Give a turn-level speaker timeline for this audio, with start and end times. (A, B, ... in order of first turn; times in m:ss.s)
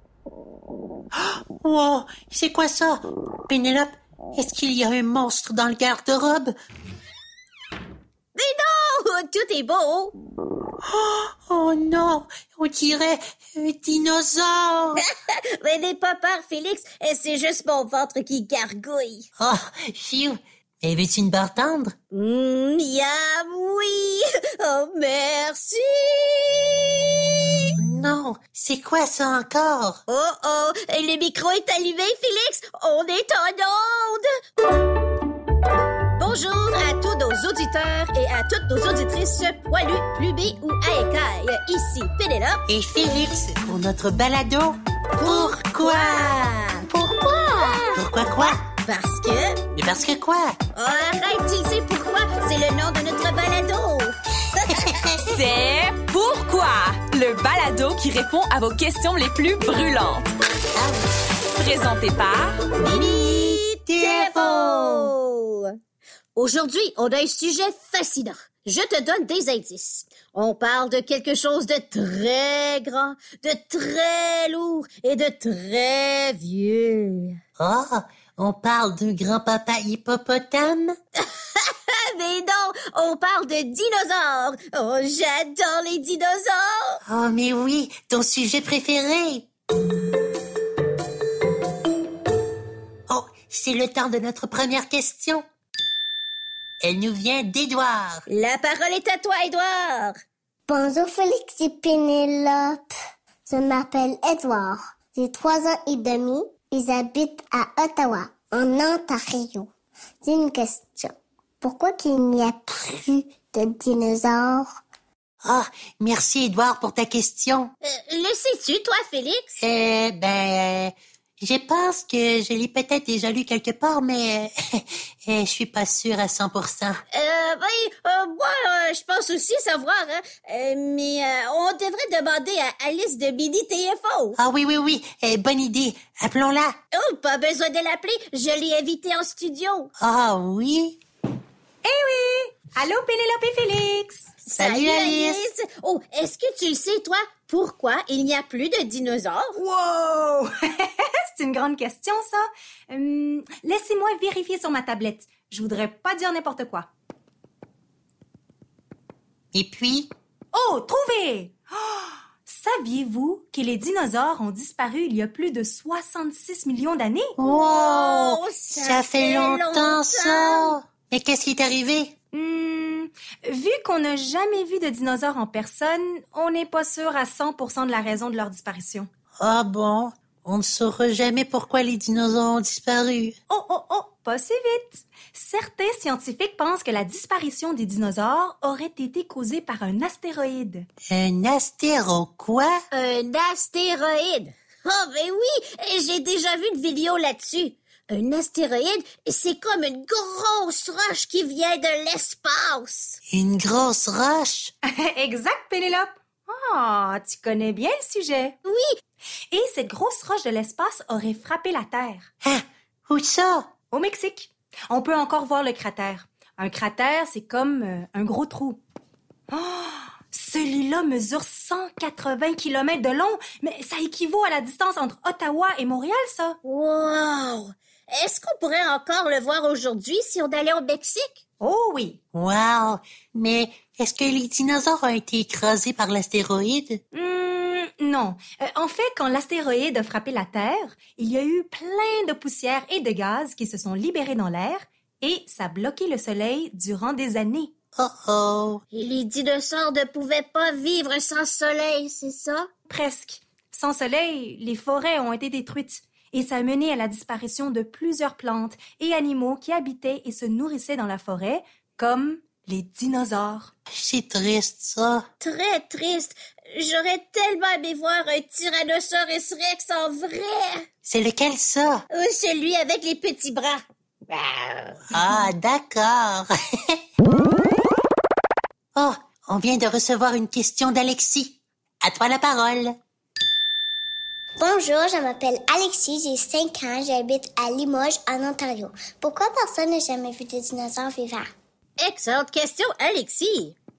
0:01.2-0:06.5 A
0:08.3-0:10.1 B
0:10.8-0:15.0 A
0:15.6-0:19.3 B
0:19.4-0:21.9 A
0:22.1-0:27.7 B
0:27.8-0:30.0 A
0:30.1-0:34.3 B
0:36.2-0:42.6 B
0:42.7-0:48.6 A
0:45.2-0:46.9 B
0:47.6-0:49.6 B
0:49.8-0:50.6 A
0:50.7-0:54.9 B
0:54.7-0:55.4 A
0:55.3-1:00.3 C
1:00.7-1:01.1 A
1:01.5-1:02.6 C
1:02.8-1:05.1 A
1:02.9-1:05.7 B
1:06.4-1:17.4 B
1:17.6-1:20.9 A
1:21.5-1:27.0 B
1:27.0-1:29.5 A
1:33.1-1:35.4 A
1:36.8-1:38.2 A
1:38.3-1:40.2 B
1:40.7-1:42.8 D
1:43.5-1:49.7 D
1:50.2-1:54.7 D
1:55.4-1:57.7 A
1:57.8-1:59.6 B
1:59.6-2:07.0 A
2:07.1-2:14.4 B
2:14.4-2:16.7 A
2:16.9-2:19.9 B
2:20.0-2:21.0 A
2:21.8-2:24.3 E
2:24.4-2:29.6 B
2:24.6-2:25.5 A
2:29.6-2:36.9 E
2:39.5-2:40.1 A
2:40.5-2:47.3 E
2:47.4-2:52.1 A
2:47.4-2:50.7 B
2:52.3-2:59.1 E
2:59.4-3:03.4 A
3:03.5-3:10.9 E
3:11.1-3:12.8 A
3:12.9-3:23.2 B
3:23.3-3:24.7 A
3:24.9-3:28.5 E
3:28.6-3:28.9 B
3:29.5-3:32.2 E
3:32.4-3:33.7 A
3:33.9-3:38.8 E
3:39.5-3:46.6 E
3:46.6-3:51.4 B
3:51.6-3:52.2 E
3:52.3-3:57.0 A
3:57.1-4:07.7 E
4:08.0-4:08.8 A
4:08.9-4:12.7 B
4:12.9-4:23.7 E
4:23.9-4:25.2 A
4:25.4-4:30.8 B
4:31.0-4:32.0 A
4:32.1-4:35.2 B
4:35.1-4:37.0 A
4:39.0-4:43.0 A
4:44.6-4:51.5 D
4:52.0-4:53.8 B